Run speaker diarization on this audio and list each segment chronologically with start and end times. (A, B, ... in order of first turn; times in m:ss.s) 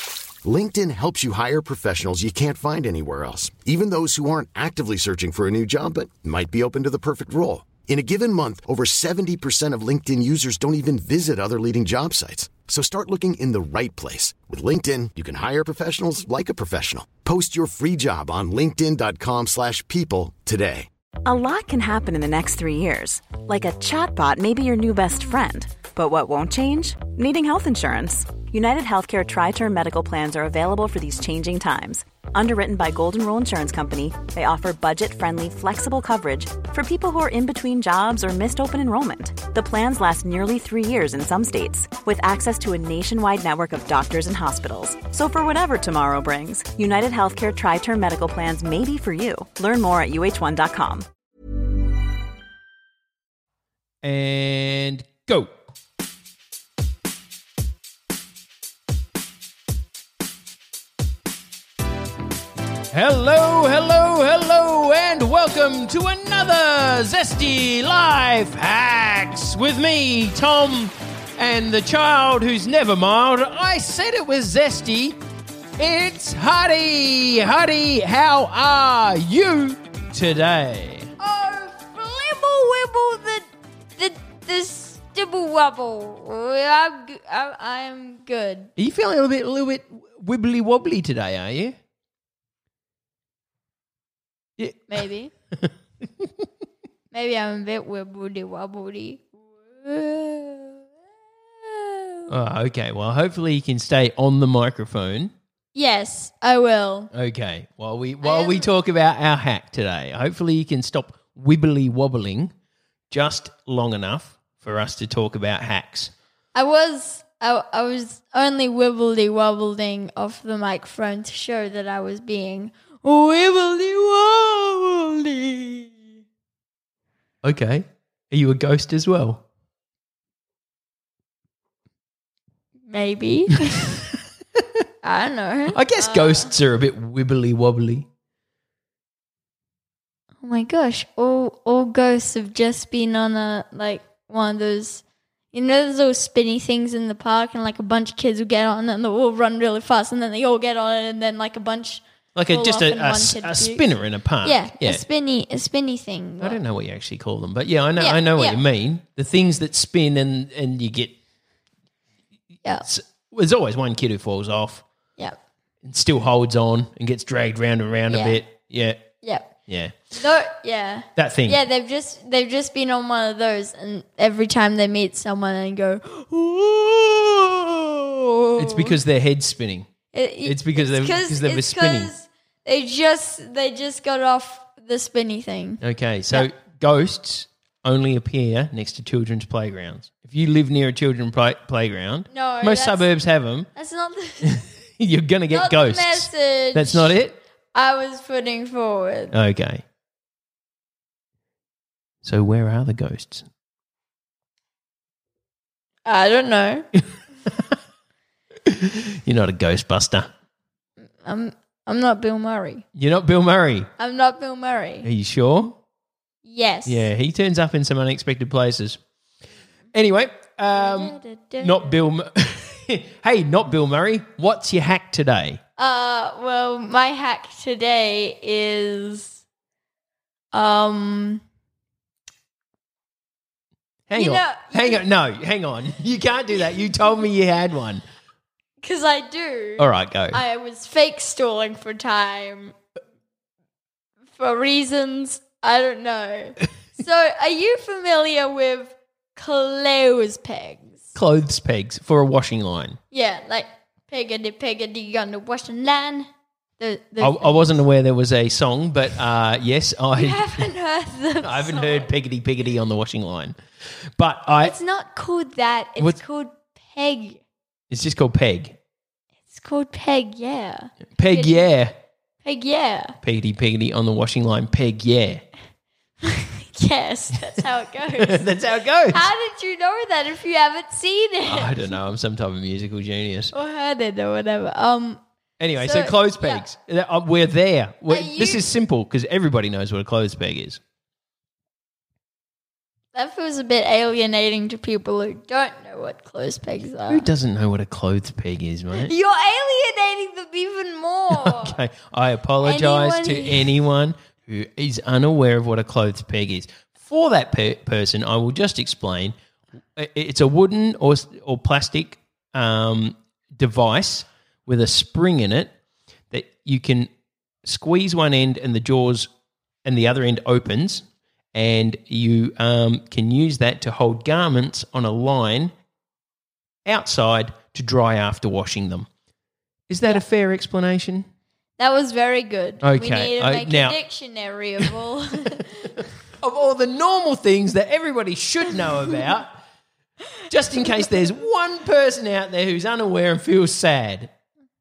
0:00.4-0:20.9 A
0:21.2-0:51.0 B
0:54.0-0:55.5 C
1:02.9-1:15.2 C
1:15.8-1:21.1 C
1:21.2-1:23.4 D
1:24.0-1:28.7 D
1:28.8-1:31.7 C
1:34.6-1:34.9 C
1:34.9-1:35.3 D
1:37.1-1:40.9 D
1:41.6-1:42.3 D
1:42.3-1:45.3 C
1:45.7-1:47.1 D
1:47.1-1:52.5 C
1:48.2-1:48.7 D
1:53.1-1:56.1 C
1:56.5-2:06.1 D
2:07.4-2:09.4 C
2:12.9-2:13.9 D
2:15.0-2:16.5 D
2:15.7-2:18.1 C
2:20.4-2:33.9 D
2:32.3-2:35.0 C
2:34.4-2:36.6 D
2:36.4-2:41.1 C
2:38.0-2:38.6 D
2:42.8-2:44.8 C
2:45.8-2:49.0 C
2:48.1-2:48.4 D
2:49.2-2:49.5 D
2:49.7-2:50.0 C
2:50.1-2:59.0 D
2:51.2-2:51.6 C
2:58.6-2:59.9 C
3:00.1-3:05.8 D
3:00.4-3:02.1 C
3:05.8-3:13.7 C
3:12.3-3:13.1 D
3:13.7-3:14.6 D
3:14.4-3:17.4 C
3:15.5-3:17.2 D
3:17.7-3:19.3 D
3:19.3-3:19.8 C
3:22.2-3:23.4 C
3:26.0-3:26.8 D
3:28.6-3:30.3 C
3:31.0-3:32.8 D
3:32.9-3:33.9 C
3:34.0-3:35.1 D
3:35.0-3:35.8 C
3:36.4-3:37.1 D
3:36.8-3:39.0 C
3:39.9-3:45.6 C
3:40.7-3:42.0 D
3:45.8-3:49.4 D
3:50.5-3:51.4 D
3:54.1-3:58.0 C
3:54.1-3:55.0 D
3:58.8-4:02.7 D
3:59.8-4:00.4 C
4:04.3-4:11.1 D
4:11.1-4:13.0 C
4:13.1-4:16.3 D
4:16.8-4:17.8 D
4:17.2-4:20.7 C
4:20.1-4:22.1 D
4:21.4-4:23.5 C
4:24.2-4:24.8 C
4:24.6-4:27.4 D
4:27.9-4:28.8 C
4:29.5-4:31.7 D
4:31.2-4:31.9 C
4:32.4-4:33.1 D
4:33.2-4:35.4 C
4:36.2-4:38.6 D
4:38.1-4:39.3 C
4:39.1-4:41.9 D
4:41.4-4:43.5 C
4:43.5-4:45.2 D
4:45.6-4:50.8 C
4:45.8-4:46.6 D
4:48.1-4:48.6 D
4:53.1-4:57.2 D
4:57.1-4:59.1 C
4:58.9-5:01.8 D
5:01.3-5:09.3 C
5:02.6-5:03.7 D
5:10.0-5:15.7 C
5:16.3-5:17.1 C
5:17.6-5:19.3 C
5:19.8-5:25.7 C
5:26.8-5:29.1 C
5:29.9-5:31.2 C
5:31.8-5:35.9 D
5:32.8-5:34.0 C
5:36.0-5:39.5 C
5:40.5-5:44.3 C